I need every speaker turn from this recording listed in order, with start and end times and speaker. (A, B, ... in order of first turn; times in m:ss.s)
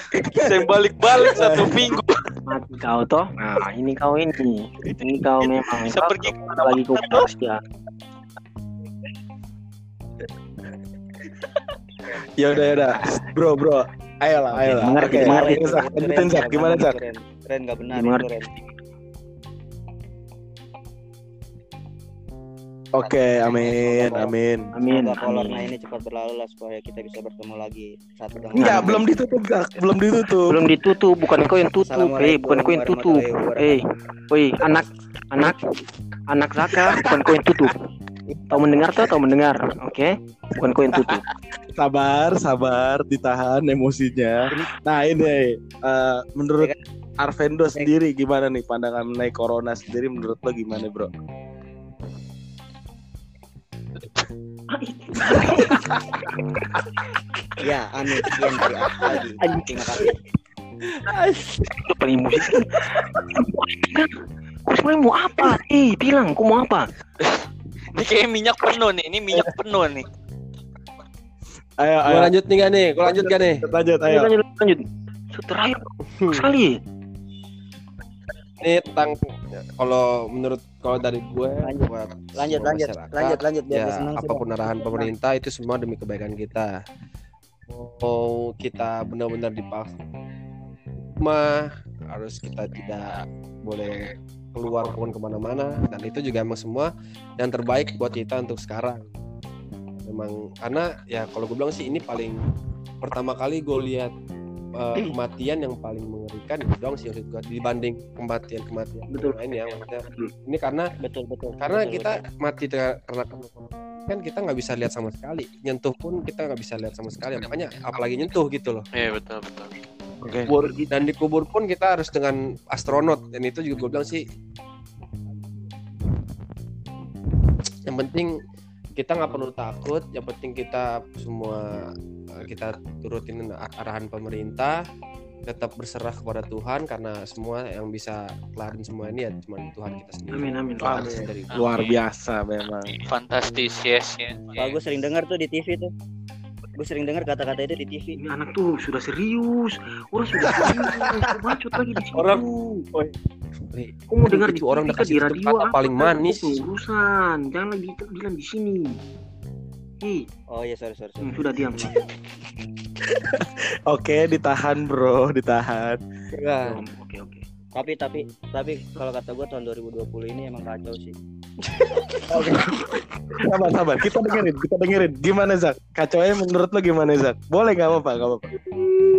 0:00.1-0:00.7 A
0:00.3-0:02.3 B
0:01.2-0:02.0 A
0:02.4-0:07.6 C
0:05.9-0:07.3 B
0:12.4-0:17.0 A
0:14.5-0:15.7 C
0:14.9-0:18.5 D
0:17.9-0:18.7 C
0:22.9-0:24.7 A
0:23.0-0:24.3 D
0:24.7-0:25.7 C
0:24.8-0:29.1 D
0:28.5-0:28.9 C
0:28.6-0:30.6 A
0:30.4-0:35.6 C
0:31.8-0:33.8 D
0:36.3-0:37.8 C
0:36.7-0:37.1 A
0:38.3-0:38.8 D
0:38.5-0:41.2 C
0:40.9-0:51.1 A
0:54.7-0:56.8 C
0:57.6-1:00.2 D
0:59.4-1:00.1 C
1:01.1-1:01.4 E
1:01.1-1:04.1 C
1:04.7-1:06.9 C
1:07.9-1:10.1 B
1:11.8-1:12.3 A
1:12.0-1:13.6 E
1:13.0-1:14.3 A
1:14.0-1:16.8 C
1:16.1-1:16.5 E
1:18.6-1:26.7 E
1:21.6-1:25.1 D
1:27.7-1:29.9 E
1:31.2-1:39.1 E
1:40.0-1:42.4 E
1:43.0-1:44.1 E
1:44.8-1:50.9 E
1:49.1-1:50.3 C
1:51.0-1:52.2 D
1:51.6-1:58.8 E
1:58.9-1:59.7 B
2:00.2-2:00.9 A
2:00.9-2:04.2 E
2:07.9-2:08.3 E
2:09.0-2:11.6 E
2:12.4-2:14.8 E
2:15.4-2:21.5 E
2:20.3-2:21.2 C
2:20.8-2:23.0 A
2:21.5-2:22.0 B
2:22.9-2:24.8 B
2:24.6-2:25.9 D
2:26.8-2:28.2 D
2:28.2-2:32.4 C
2:30.5-2:31.3 A
2:32.2-2:32.4 A
2:32.2-2:32.4 E
2:33.7-2:36.6 E
2:34.1-2:39.0 C
2:40.0-2:40.3 C
2:40.5-2:41.5 D
2:41.2-2:41.9 C
2:43.0-2:46.0 A
2:46.3-2:46.8 E
2:46.6-2:47.4 C
2:47.8-2:51.1 D
2:52.3-2:52.8 A
2:53.4-2:58.5 A